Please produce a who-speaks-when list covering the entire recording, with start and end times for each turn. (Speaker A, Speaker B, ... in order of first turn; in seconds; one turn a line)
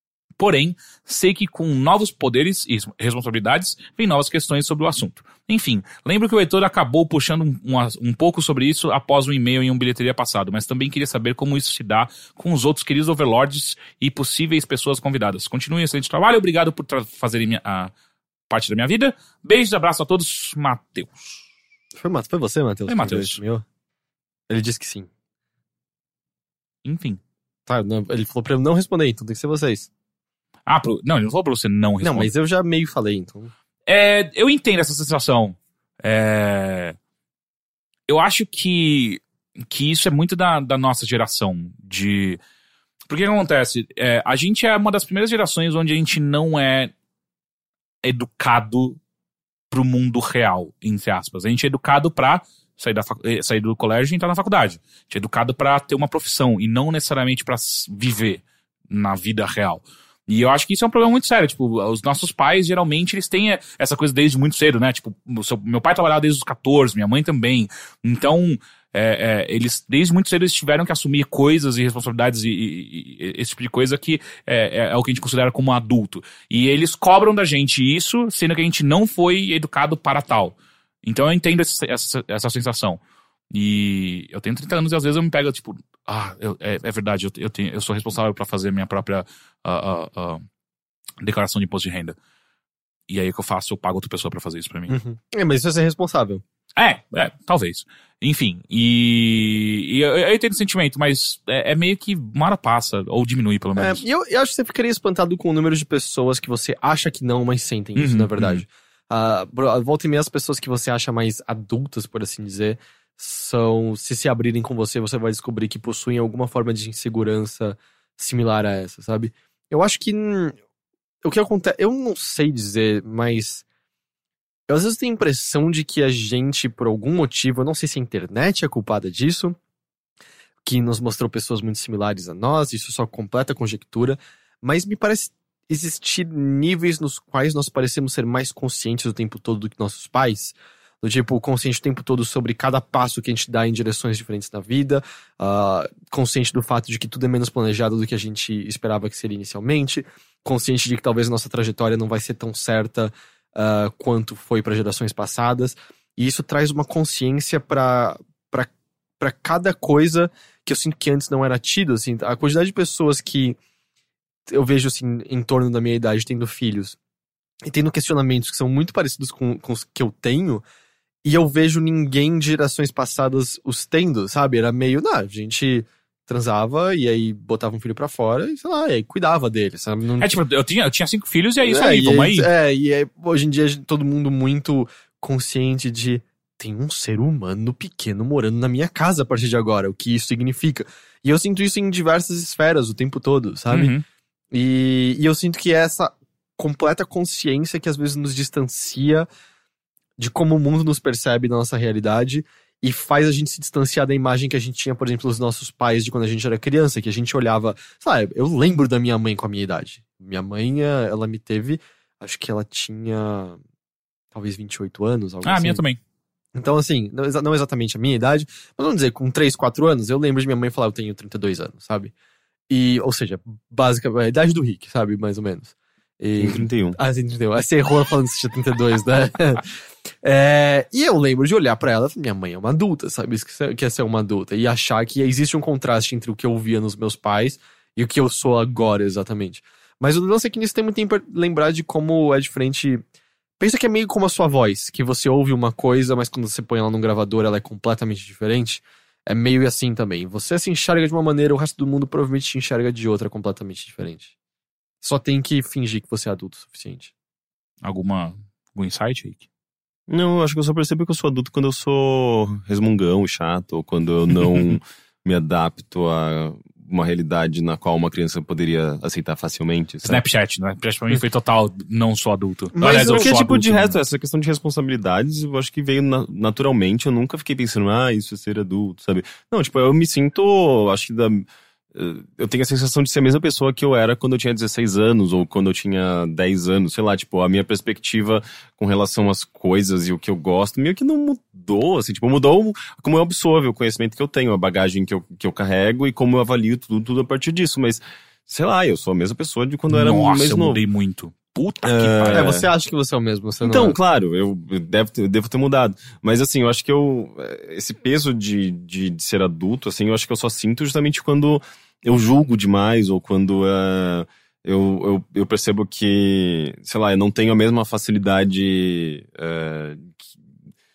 Speaker A: 0.4-17.9
Speaker A: 18.5-21.4
Speaker B: 22.0-23.6
Speaker A: 22.9-23.4
Speaker B: 24.5-25.1
Speaker A: 26.9-27.2
Speaker B: 27.7-29.9
Speaker A: 30.7-32.3
Speaker B: 32.0-33.5
Speaker A: 33.9-37.0
Speaker A: 38.1-42.4
Speaker A: 43.1-46.9
Speaker A: 48.0-49.0
Speaker A: 49.7-83.0
Speaker A: 83.5-90.4
Speaker A: 91.2-92.2
Speaker A: 93.1-94.9
Speaker B: 94.9-96.4
Speaker A: 96.8-104.0
Speaker B: 103.8-120.6
Speaker A: 108.0-108.6
Speaker B: 121.2-123.6
Speaker B: 124.7-129.6
Speaker B: 130.6-163.6
Speaker B: 164.5-167.0
Speaker B: 167.7-170.6
Speaker B: 171.2-180.4
Speaker A: 180.2-182.5
Speaker B: 181.6-193.9
Speaker A: 193.7-194.0
Speaker B: 194.5-199.3
Speaker B: 200.2-213.6
Speaker B: 214.3-215.8
Speaker A: 215.4-216.0
Speaker B: 216.6-222.1
Speaker B: 222.7-229.6
Speaker C: 226.4-227.0
Speaker B: 230.2-243.0
Speaker B: 243.6-254.3
Speaker B: 255.0-257.1
Speaker A: 257.8-259.4
Speaker C: 260.1-270.2
Speaker A: 270.0-273.9
Speaker B: 272.8-273.3
Speaker C: 272.9-300.8
Speaker A: 299.9-302.5
Speaker C: 301.8-302.7
Speaker B: 302.3-304.0
Speaker C: 303.6-320.2